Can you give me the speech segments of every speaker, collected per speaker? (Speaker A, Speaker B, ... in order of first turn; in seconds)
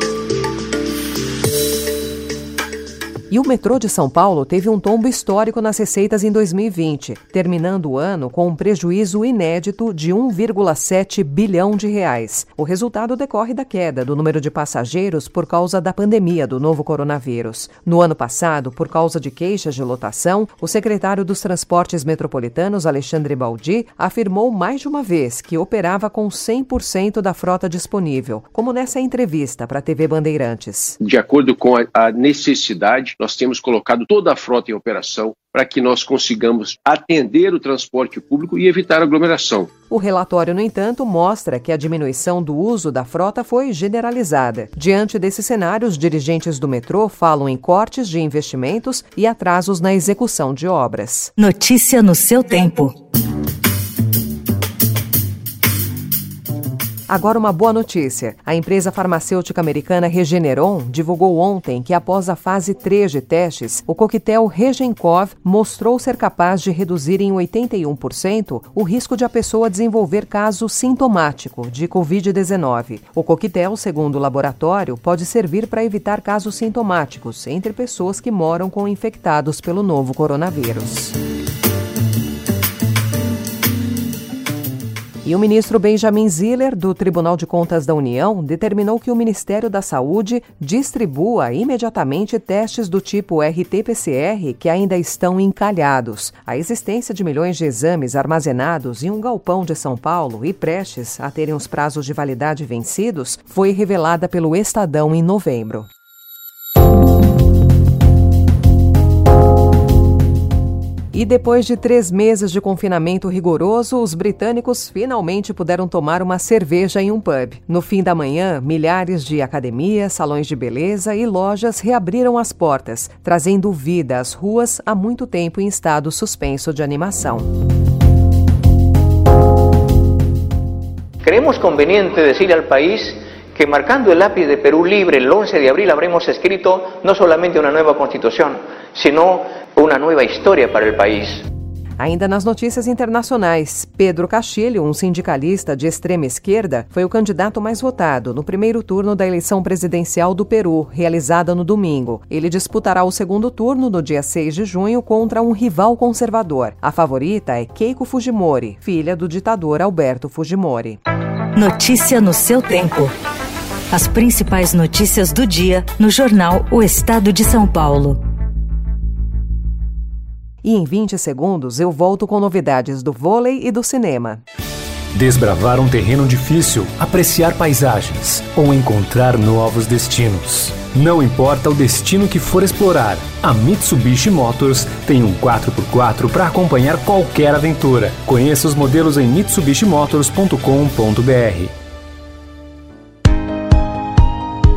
Speaker A: 3.3-31.0, 39.9-51.3, 57.1-81.2, 85.2-105.9, 111.1-127.5, 142.0-161.0, 170.6-174.4
Speaker B: 31.0-39.7
Speaker C: 51.4-52.9, 161.6-163.1, 163.9-168.2
Speaker D: 131.2-141.4
Speaker E: 175.1-191.7